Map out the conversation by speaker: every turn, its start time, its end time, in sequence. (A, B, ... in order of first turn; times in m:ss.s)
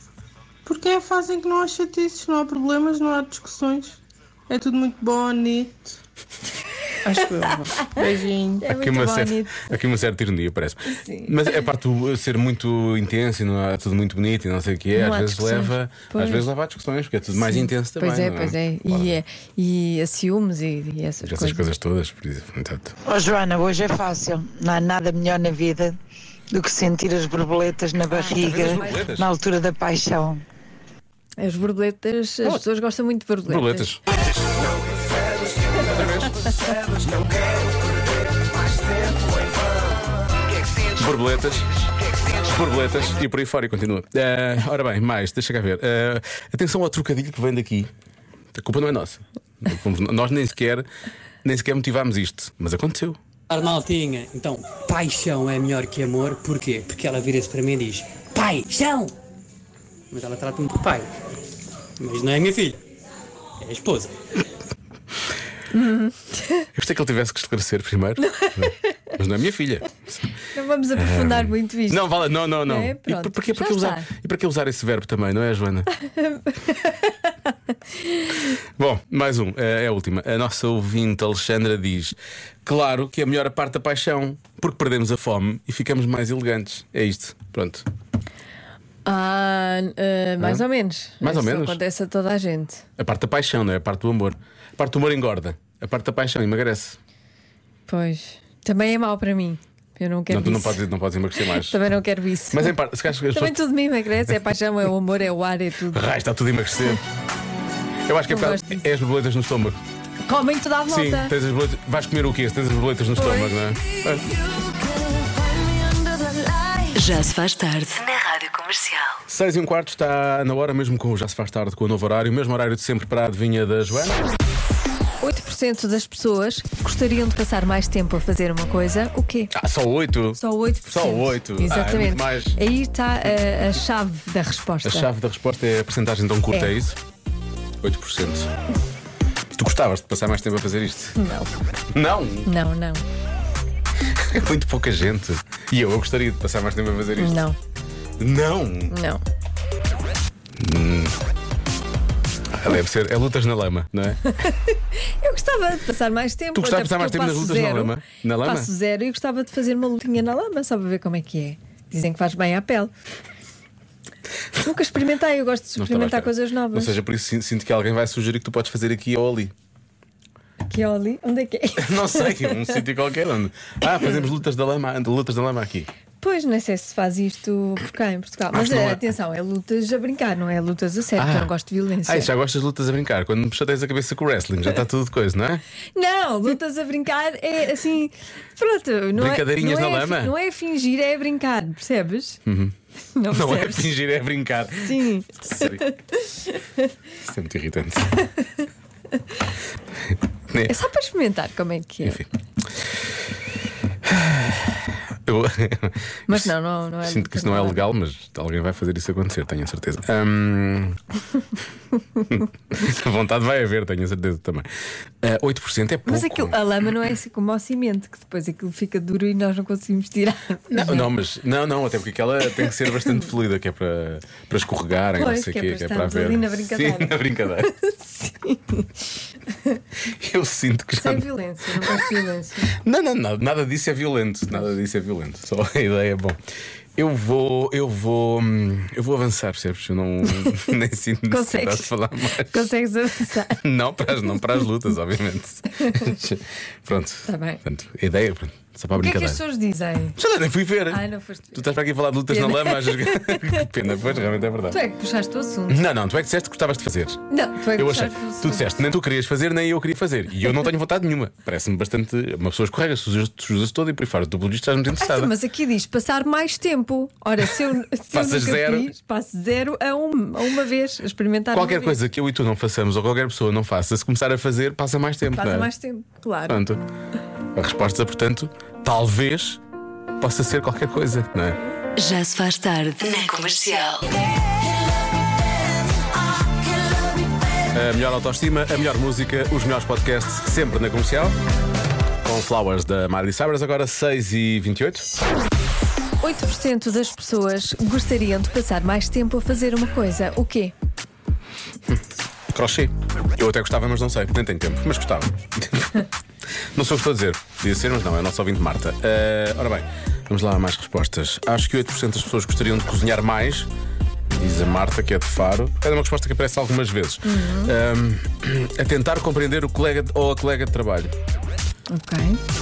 0:00.6-0:05.8 A
0:07.0-0:08.6 A
0:08.6-0:09.7 B
0:08.6-0:19.2 C
0:10.9-0:11.3 B
0:15.0-0:16.5 B
0:17.3-0:21.7 B
0:21.2-0:22.9 C
0:23.0-0:26.0 D
0:26.5-0:30.4 D
0:28.3-0:29.3 C
0:31.4-0:33.9 B
0:33.5-0:34.0 C
0:35.6-0:36.5 C
0:41.0-0:41.7 C
0:42.3-0:47.9 C
0:48.5-0:50.9 C
0:51.4-0:53.2 C
0:53.5-0:59.1 E
1:00.1-1:01.1 E
1:02.0-1:02.8 E
1:03.6-1:04.1 E
1:05.7-1:06.7 B
1:06.7-1:10.3 C
1:10.5-1:14.1 B
1:11.0-1:15.9 C
1:15.9-1:17.3 B
1:18.1-1:18.4 B
1:18.8-1:27.8 C
1:29.0-1:32.8 B
1:30.4-1:30.6 C
1:31.2-1:31.8 C
1:33.0-1:37.0 C
1:37.9-1:40.8 B
1:40.3-1:41.8 C
1:41.6-1:42.8 B
1:42.5-1:43.5 C
1:43.3-1:46.0 B
1:45.9-1:47.0 C
1:48.1-1:49.8 C
1:48.3-1:48.8 B
1:50.2-1:51.3 B
1:50.9-1:54.2 C
1:53.2-1:53.7 B
1:55.5-1:56.9 B
1:56.9-1:59.1 F
1:59.3-2:04.2 C
2:05.2-2:09.5 B
2:09.5-2:12.6 C
2:10.3-2:15.1 B
2:14.8-2:17.0 C
2:17.8-2:18.5 C
2:19.5-2:21.2 C
2:21.2-2:21.5 B
2:21.9-2:22.5 C
2:22.4-2:23.0 B
2:24.1-2:27.4 C
2:27.2-2:27.6 B
2:28.2-2:29.0 C
2:28.9-2:29.2 B
2:30.6-2:31.2 C
2:32.5-2:34.2 C
2:34.3-2:42.9 B
2:36.5-2:38.7 C
2:44.6-2:47.0 B
2:45.8-2:49.5 C
2:50.7-2:52.7 B
2:51.8-2:55.9 C
2:56.2-3:02.3 B
2:58.5-2:59.0 C
3:01.2-3:01.5 C
3:02.0-3:05.6 C
3:05.9-3:12.4 B
3:09.1-3:10.3 C
3:12.4-3:12.7 C
3:13.1-3:13.9 B
3:13.3-3:15.8 C
3:14.8-3:16.6 B
3:17.2-3:18.1 C
3:20.7-3:22.2 B
3:24.0-3:26.5 C
3:26.3-3:27.8 B
3:27.0-3:31.0 C
3:32.3-3:34.7 C
3:35.2-3:36.6 C
3:36.0-3:41.1 B
3:40.7-3:47.7 C
3:45.2-3:48.9 B
3:50.2-3:51.2 C
3:51.0-3:52.8 B
3:52.7-3:56.4 C
3:57.0-4:02.7 C
4:01.3-4:03.6 B
4:03.6-4:09.4 C
4:07.2-4:07.6 B
4:09.0-4:10.2 B
4:10.2-4:11.0 C
4:10.9-4:11.7 B
4:11.5-4:14.8 C
4:12.3-4:13.7 B
4:14.7-4:15.8 B
4:15.7-4:17.2 C
4:17.3-4:18.7 B
4:17.8-4:25.3 C
4:25.0-4:32.0 B
4:28.1-4:28.9 C
4:31.5-4:35.7 C
4:35.3-4:36.6 B
4:36.5-4:36.8 C
4:37.5-4:39.6 C
4:40.2-4:41.6 C
4:42.0-4:44.0 F
4:47.7-4:51.3 C
4:52.2-4:55.0 C
4:56.2-5:00.7 B
5:02.5-5:06.0 C
5:06.7-5:13.7 C
5:14.3-5:21.1 C
5:17.2-5:17.7 B
5:21.9-5:22.4 B